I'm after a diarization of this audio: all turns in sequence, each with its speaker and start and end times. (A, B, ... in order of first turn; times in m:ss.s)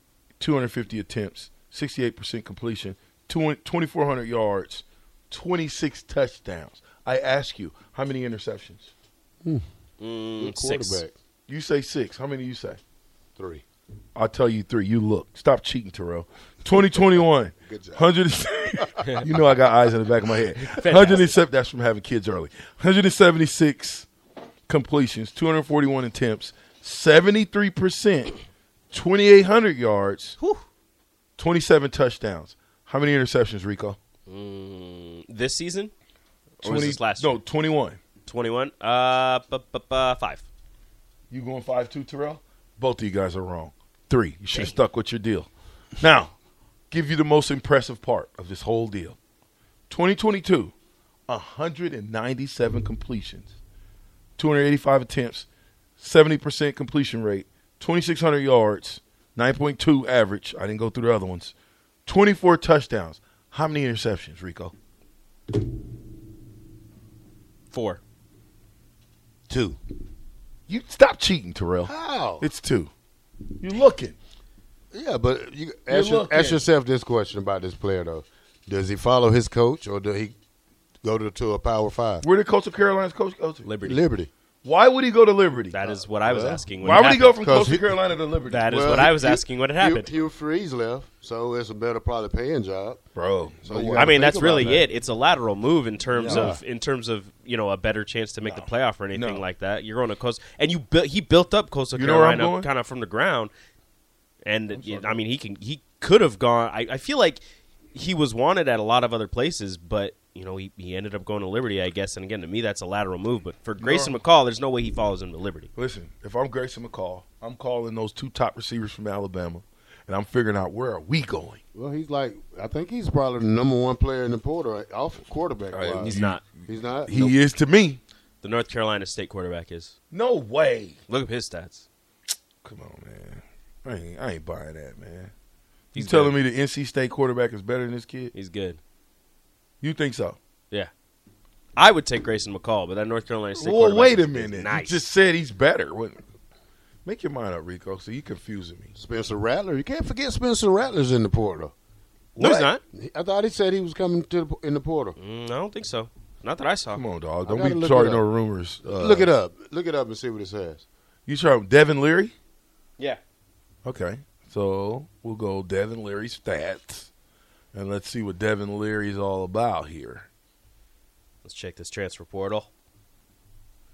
0:00.4-0:08.9 A
0:10.0-0:11.0 B
0:10.4-0:11.1 C
0:11.5-0:12.8 A
0:13.4-0:13.6 C
0:14.2-0:24.1 A
0:16.6-0:18.1 C
0:18.7-0:19.5 C
0:20.5-0:21.4 B
0:24.7-0:28.4 A
0:28.9-0:30.4 A
0:30.4-0:30.6 B
0:31.4-0:34.0 A
0:34.3-0:35.9 B
0:36.6-0:37.4 B
0:36.6-0:38.0 A
0:38.2-0:40.4 B
0:41.3-0:46.3 A
0:46.9-0:49.2 A
0:49.9-0:50.7 A
0:51.3-0:53.5 A
0:54.4-0:55.5 A
0:56.0-1:01.5 A
1:02.0-1:04.7 A
1:07.7-1:08.0 B
1:09.5-1:09.8 C
1:10.7-1:12.9 A
1:11.8-1:12.5 C
1:13.6-1:14.2 A
1:14.9-1:20.3 C
1:15.9-1:16.6 A
1:21.0-1:22.2 C
1:22.2-1:23.7 A
1:23.6-1:24.0 B
1:23.8-1:24.3 C
1:24.6-1:25.8 A
1:25.7-1:27.4 B
1:25.8-1:26.7 C
1:26.8-1:29.0 A
1:27.4-1:28.0 C
1:28.5-1:30.1 B
1:28.7-1:33.0 C
1:33.1-1:34.8 A
1:33.6-1:34.8 C
1:34.0-1:43.5 B
1:36.1-1:36.5 A
1:36.2-1:36.6 C
1:38.4-1:39.4 A
1:41.9-1:42.7 A
1:44.4-1:47.4 B
1:44.7-1:45.2 A
1:47.9-1:55.7 B
1:53.8-1:54.2 A
1:55.7-2:01.6 A
2:01.7-2:06.2 C
2:05.7-2:08.0 A
2:06.0-2:06.4 B
2:06.7-2:07.3 C
2:08.4-2:09.9 B
2:10.1-2:11.0 A
2:11.1-2:11.8 B
2:12.6-2:15.3 A
2:15.9-2:16.3 B
2:15.9-2:18.3 A
2:18.3-2:18.8 B
2:19.8-2:20.4 A
2:21.8-2:25.1 B
2:23.6-2:26.2 A
2:27.0-2:28.9 A
2:28.9-2:31.7 C
2:32.4-2:32.8 B
2:32.4-2:32.7 A
2:32.9-2:35.2 C
2:35.2-2:37.0 B
2:36.9-2:39.3 A
2:37.4-2:38.2 C
2:38.8-2:40.8 C
2:41.3-2:42.3 A
2:43.8-2:47.1 A
2:47.7-2:50.3 A
2:51.4-2:52.7 B